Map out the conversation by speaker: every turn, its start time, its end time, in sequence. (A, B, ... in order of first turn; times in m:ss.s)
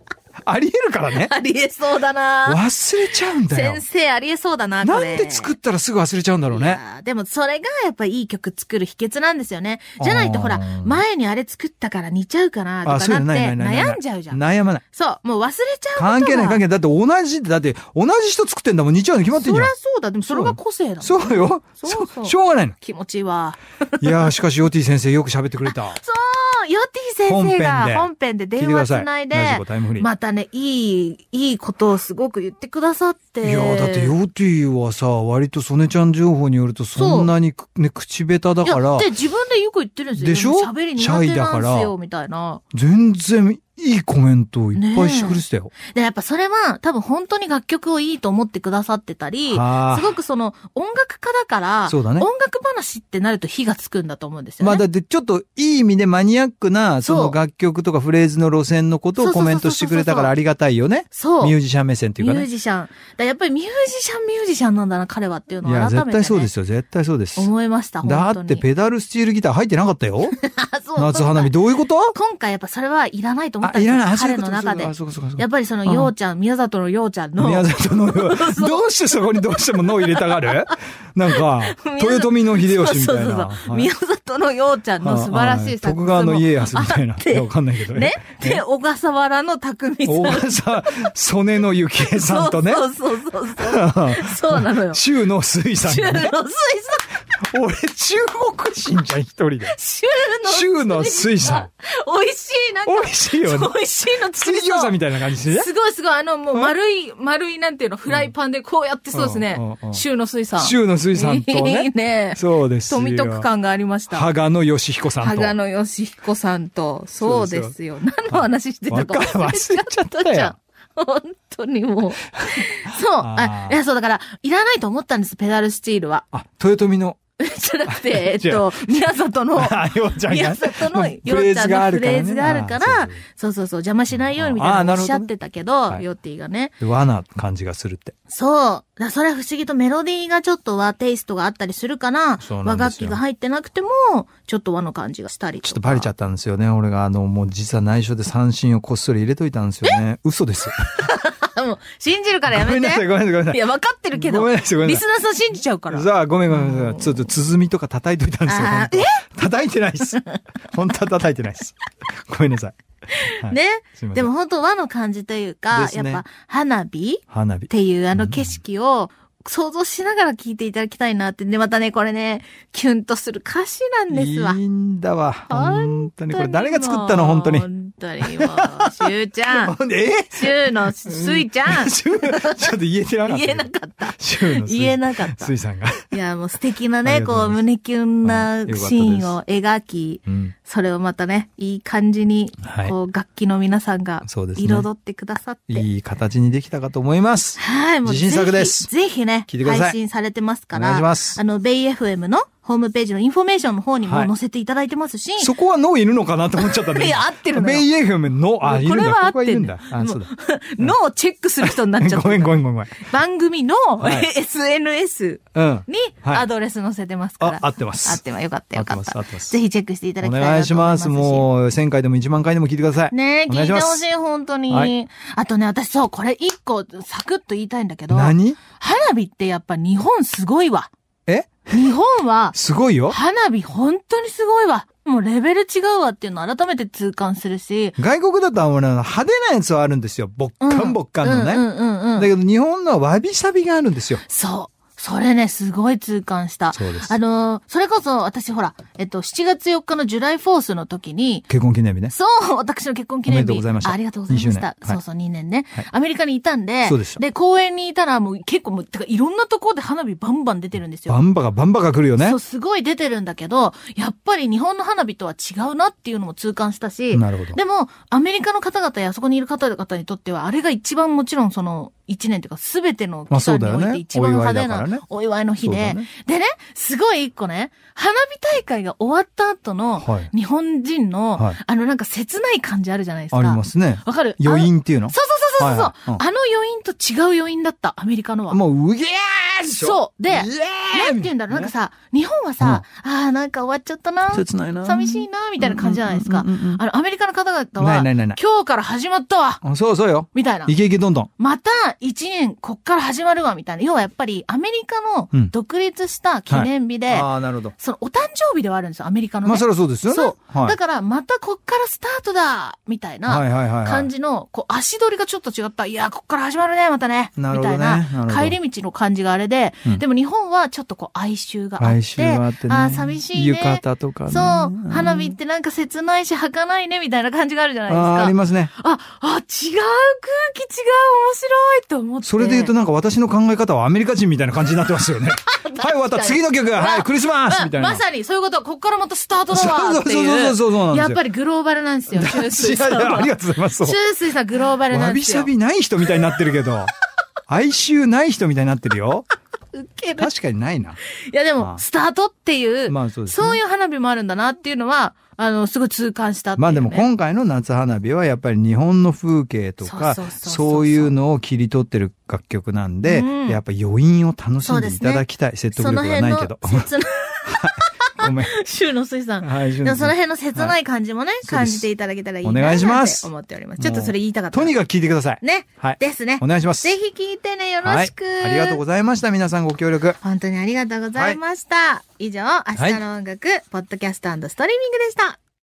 0:00.4-0:01.3 A
0:01.1-0:02.6 B
0:02.5-0:03.8 A
0:03.2-0:05.6 B
0:04.8-0:06.8 A
0:06.5-0:14.4 B
0:10.0-0:11.0 A
0:12.8-0:14.8 A
0:14.9-0:16.6 B
0:16.0-0:19.7 A
0:19.4-0:24.3 B
0:20.3-0:22.8 A
0:24.0-0:26.0 A
0:25.7-0:34.1 B
0:27.3-0:30.1 A
0:33.4-0:39.1 A
0:37.0-0:37.3 B
0:38.6-0:42.6 B
0:40.2-0:41.9 A
0:42.7-0:45.7 A
0:44.8-0:54.8 B
0:49.5-0:50.1 A
0:51.9-0:52.3 A
0:54.6-1:02.5 A
0:57.0-0:57.4 B
0:59.2-1:00.3 B
1:01.1-1:01.6 B
1:02.2-1:06.5 B
1:05.6-1:07.5 A
1:07.4-1:08.6 B
1:08.0-1:10.4 A
1:10.4-1:11.5 B
1:11.0-1:12.2 A
1:12.1-1:20.8 B
1:13.6-1:16.1 A
1:17.4-1:23.9 A
1:21.3-1:31.1 B
1:25.0-1:28.6 A
1:30.0-1:32.8 A
1:32.0-1:35.0 B
1:33.6-1:36.3 A
1:35.8-1:37.2 B
1:37.4-1:39.7 A
1:39.6-1:54.3 B
1:40.4-1:41.7 A
1:42.9-1:43.7 A
1:44.3-1:45.7 A
1:49.1-1:50.0 A
1:50.6-1:53.5 A
1:54.1-1:55.6 A
1:55.2-2:06.3 B
1:57.2-1:57.7 A
1:58.3-2:00.5 A
2:03.2-2:03.8 A
2:06.3-2:07.2 A
2:07.4-2:16.7 B
2:07.9-2:09.0 A
2:09.6-2:13.2 A
2:14.3-2:15.3 A
2:16.8-2:18.1 A
2:18.3-2:26.1 B
2:22.4-2:23.2 A
2:25.6-2:30.8 A
2:30.8-2:37.3 B
2:32.5-2:35.0 A
2:35.9-2:40.2 A
2:38.5-2:39.2 B
2:40.7-2:42.8 A
2:43.2-2:54.6 B
2:43.4-2:44.3 A
2:45.7-2:46.2 A
2:47.3-2:48.5 A
2:54.1-2:57.7 A
2:55.5-2:59.7 B
2:58.4-2:58.9 A
2:59.6-3:06.2 A
3:00.3-3:05.5 B
3:06.1-3:15.9 B
3:07.0-3:07.6 A
3:08.2-3:09.4 A
3:10.3-3:10.5 A
3:12.6-3:12.9 A
3:14.2-3:14.9 A
3:15.7-3:18.9 A
3:17.6-3:25.5 B
3:19.5-3:20.0 A
3:20.7-3:21.4 A
3:24.0-3:24.3 A
3:25.4-3:31.0 A
3:26.6-3:27.9 B
3:28.6-3:41.5 B
3:31.6-3:33.0 A
3:34.0-3:34.3 A
3:35.6-3:36.5 A
3:37.4-3:38.2 A
3:38.8-3:39.6 A
3:40.2-3:44.0 A
3:43.1-3:50.9 B
3:48.1-3:48.6 A
3:51.3-3:51.9 A
3:51.7-3:52.6 B
3:52.5-3:53.2 A
3:53.1-3:58.0 B
3:58.0-4:01.6 A
4:00.6-4:02.3 B
4:02.2-4:04.2 A
4:04.2-4:11.5 B
4:06.7-4:07.1 A
4:11.5-4:12.1 A
4:12.1-4:21.2 B
4:13.3-4:15.0 A
4:16.8-4:17.2 A
4:21.1-4:22.4 A
4:22.2-4:48.6 B
4:27.1-4:27.6 A
4:33.3-4:35.0 A
4:35.6-4:36.1 A
4:40.0-4:40.3 A
4:43.3-4:46.2 A
4:48.5-4:51.7 A
4:49.7-4:59.6 B
4:54.3-4:56.8 A
4:57.8-4:58.4 A
4:59.6-5:01.3 A
5:00.3-5:00.7 B
5:01.4-5:32.7 B
5:06.5-5:07.7 A
5:09.4-5:10.8 A
5:13.3-5:14.1 A
5:17.4-5:18.6 A
5:21.8-5:25.4 A
5:27.9-5:28.7 A
5:32.2-5:38.0 A
5:35.4-5:45.5 B
5:39.5-5:41.2 A
5:42.1-5:44.0 A
5:44.9-5:46.9 A
5:47.5-5:49.3 A
5:49.7-5:50.3 B
5:50.2-5:51.0 A
5:51.3-5:57.1 B
5:52.9-5:53.6 A
5:56.6-6:06.9 A
5:59.8-6:01.1 B
6:03.0-6:03.6 B
6:04.6-6:14.7 B
6:07.5-6:08.5 A
6:09.4-6:10.8 A
6:11.4-6:11.9 A
6:12.4-6:16.9 A
6:15.4-6:18.8 B
6:17.8-6:20.2 A
6:20.2-6:25.4 B